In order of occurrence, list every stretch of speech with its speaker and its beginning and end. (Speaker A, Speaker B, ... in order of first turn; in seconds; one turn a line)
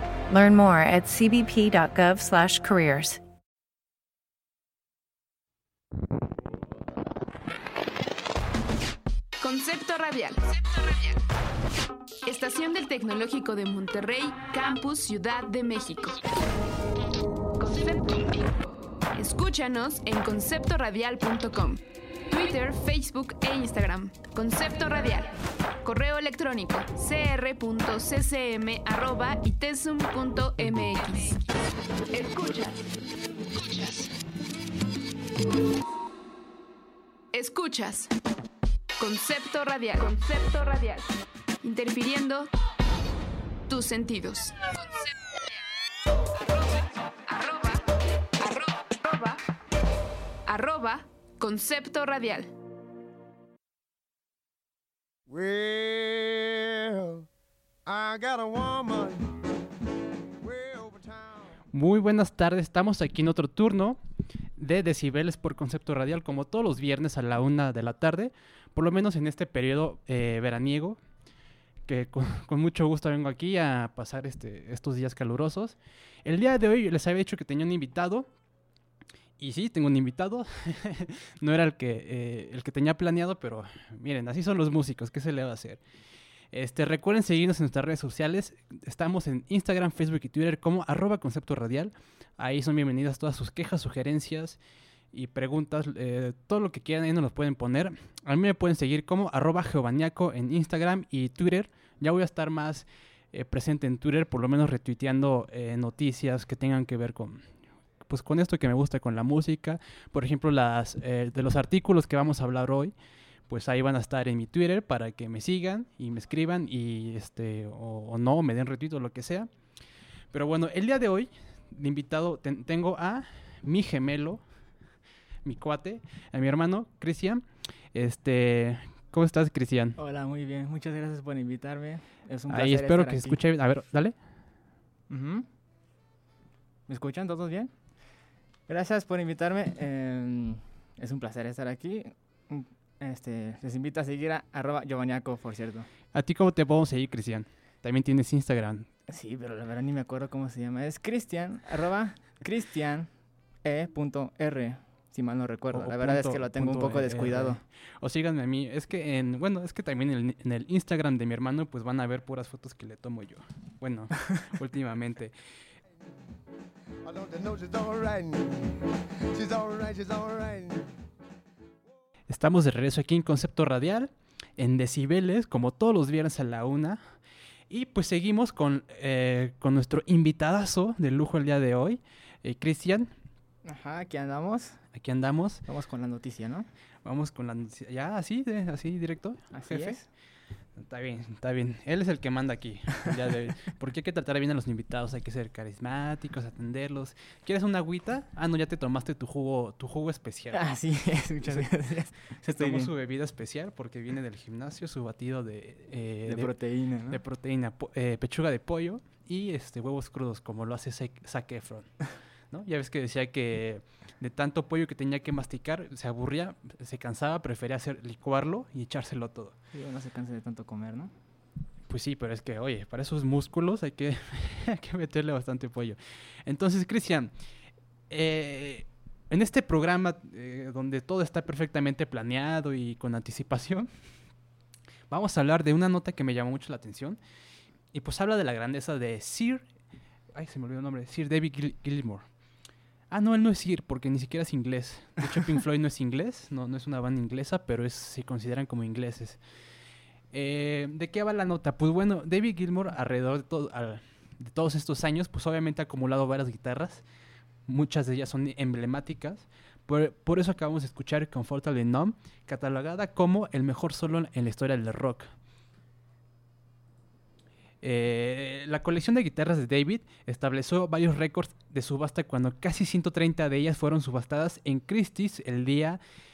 Speaker A: 0.3-3.2
Speaker B: 9.4-11.2
Speaker B: 12.2-16.2
Speaker B: 17.6-18.6
Speaker B: 19.1-31.4
Speaker B: 32.1-32.8
Speaker B: 33.6-34.1
Speaker B: 37.3-38.1
Speaker B: 39.0-41.1
Speaker B: 41.6-42.5
Speaker B: 43.7-45.1
Speaker B: 46.4-47.8
Speaker B: 48.4-49.4
Speaker B: 50.5-52.5
Speaker C: 55.3-57.3
Speaker C: 57.9-59.3
Speaker C: 60.4-61.5
Speaker D: 61.7-64.0
Speaker D: 64.6-71.0
Speaker D: 71.9-78.3
Speaker D: 79.4-85.8
Speaker D: 86.5-94.6
Speaker D: 95.1-107.4
Speaker D: 108.0-112.9
Speaker D: 113.5-119.5
Speaker D: 120.3-124.4
Speaker D: 125.4-127.4
Speaker D: 127.9-130.0
Speaker E: 130.0-133.4
Speaker D: 132.5-134.2
Speaker E: 135.1-135.5
Speaker E: 136.9-137.7
Speaker E: 138.7-145.9
Speaker D: 146.1-148.9
Speaker E: 149.1-153.1
Speaker E: 153.6-157.6
Speaker D: 155.7-165.3
Speaker C: 167.1-170.9
Speaker D: 172.3-177.0
Speaker D: 177.7-183.1
Speaker E: 183.7-184.8
Speaker D: 184.9-185.6
Speaker E: 185.7-186.7
Speaker D: 187.1-190.0
Speaker E: 189.5-190.1
Speaker D: 190.8-200.6
Speaker E: 200.5-202.9
Speaker D: 202.6-206.5
Speaker E: 206.3-207.2
Speaker D: 207.1-211.9
Speaker D: 212.5-219.5
Speaker E: 219.7-221.1
Speaker D: 221.9-227.3
Speaker D: 228.1-233.9
Speaker D: 235.1-237.2
Speaker D: 237.9-239.7
Speaker D: 240.3-242.2
Speaker D: 243.1-249.4
Speaker D: 250.3-257.0
Speaker D: 257.6-265.3
Speaker D: 267.8-276.0